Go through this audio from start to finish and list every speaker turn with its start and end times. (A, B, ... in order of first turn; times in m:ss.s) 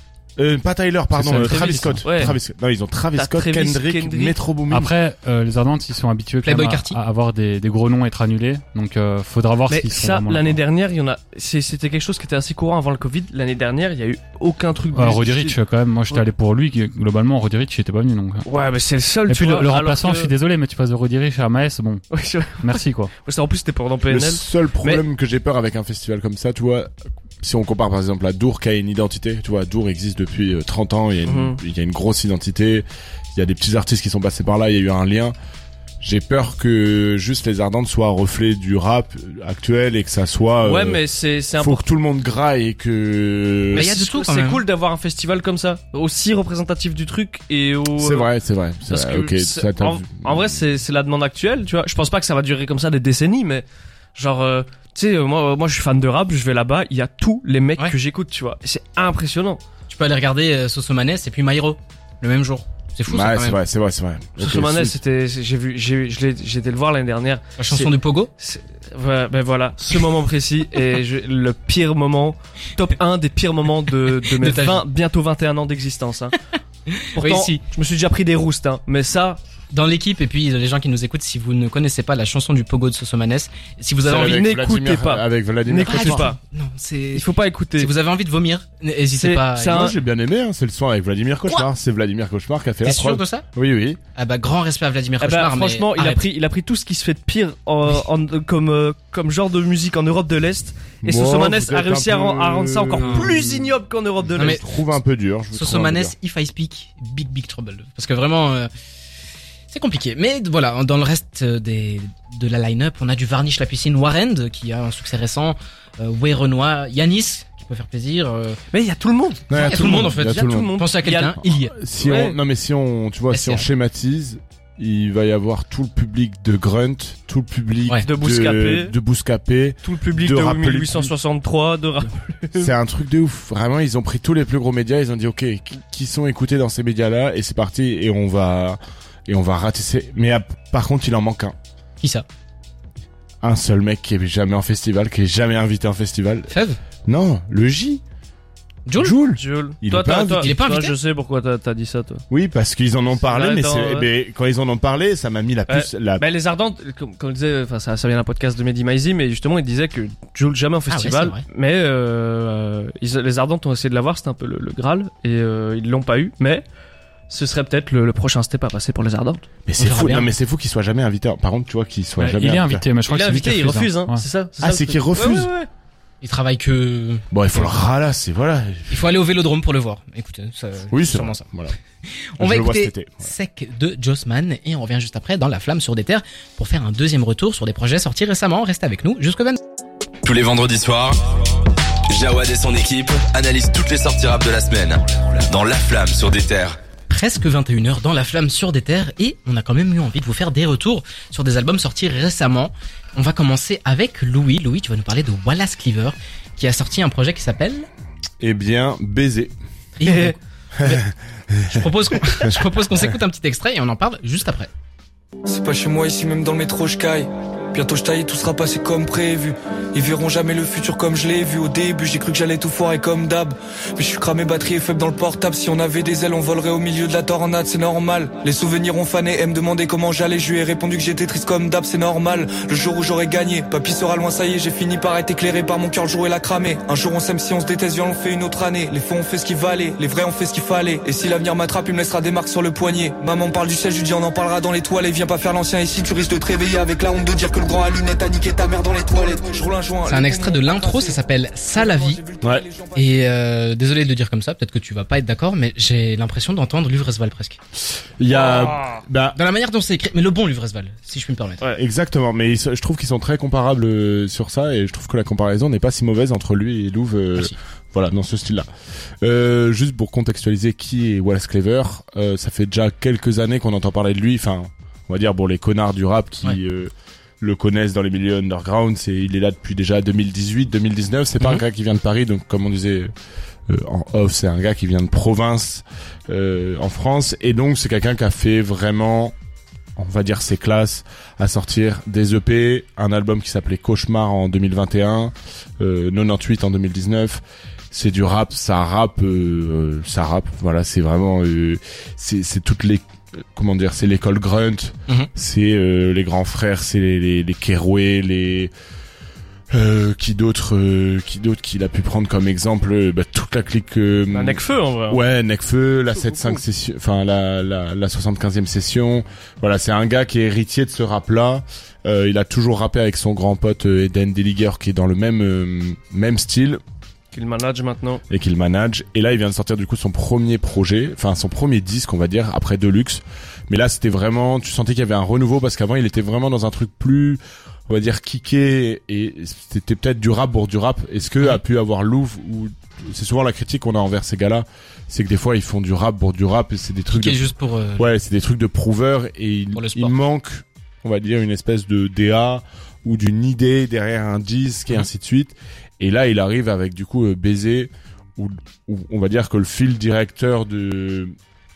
0:00.4-0:04.9 A
0:01.1-0:02.4 B
0:01.3-0:02.4 C
0:03.2-0:04.4 C
0:04.7-0:10.6 B
0:06.4-0:07.0 D
0:09.7-0:15.6 C
0:14.9-0:18.4 B
0:18.4-0:20.3 C
0:19.3-0:22.0 B
0:22.1-0:25.0 C
0:22.6-0:23.1 B
0:24.1-0:35.3 A
0:31.2-0:31.6 C
0:36.0-0:41.0 A
0:40.6-0:41.9 C
0:41.6-0:43.9 A
0:43.7-0:48.3 C
0:43.7-0:44.6 D
0:48.0-0:50.6 A
0:48.9-0:53.6 C
0:54.2-0:59.6 C
0:59.9-1:03.6 D
1:03.1-1:05.0 A
1:04.4-1:16.4 C
1:07.6-1:08.3 D
1:14.3-1:14.8 D
1:16.9-1:17.6 D
1:17.1-1:19.4 C
1:19.7-1:24.4 D
1:24.0-1:26.3 A
1:24.1-1:26.4 C
1:25.8-1:27.2 D
1:27.1-1:27.9 C
1:27.8-1:29.9 D
1:29.1-1:30.0 C
1:29.7-1:34.0 A
1:32.8-1:33.4 D
1:34.2-1:36.2 D
1:35.2-1:44.6 C
1:41.0-1:43.7 A
1:43.0-1:43.3 D
1:44.3-1:46.1 A
1:44.4-1:44.6 D
1:45.5-1:48.7 D
1:49.7-1:58.6 D
1:58.7-2:01.4 C
1:59.5-2:00.8 A
1:59.5-2:01.7 D
2:01.5-2:11.1 A
2:02.0-2:02.4 C
2:03.3-2:03.6 D
2:08.0-2:08.9 C
2:09.8-2:12.7 C
2:12.6-2:21.5 A
2:22.0-2:22.2 D
2:23.4-2:26.5 A
2:26.5-2:26.8 D
2:27.1-2:28.0 A
2:28.8-2:29.1 D
2:29.0-2:30.5 A
2:29.4-2:32.2 C
2:30.4-2:31.0 D
2:32.3-2:36.2 A
2:33.2-2:34.1 C
2:35.7-2:46.6 C
2:40.9-2:41.4 D
2:47.3-2:49.4 C
2:49.6-2:52.8 A
2:49.8-2:50.3 D
2:52.2-2:54.2 B
2:53.1-2:55.7 C
2:54.6-2:55.5 A
2:56.2-2:57.8 D
2:57.3-2:59.0 A
2:58.9-3:01.4 D
3:00.9-3:01.8 A
3:02.4-3:03.3 A
3:02.4-3:09.6 D
3:10.2-3:16.8 E
3:17.1-3:27.9 D
3:28.4-3:29.5 A
3:30.0-3:31.0 D
3:30.0-3:30.3 C
3:30.7-3:33.0 A
3:31.6-3:34.7 D
3:35.4-4:13.1 F
4:10.0-4:12.2 D
4:12.9-4:17.6 D
4:18.2-4:19.4 A
4:18.3-4:19.0 C
4:19.3-4:21.6 D
4:21.8-4:28.7 A
4:29.2-4:43.1 A
4:43.7-4:49.3 A
4:50.0-5:08.7 A
5:09.7-5:26.8 A
5:14.3-5:15.2 C
5:16.2-5:16.5 C
5:27.3-5:28.2 C
5:28.3-5:47.4 A
5:47.1-5:48.1 D
5:48.0-6:01.3 A
5:49.7-5:50.1 D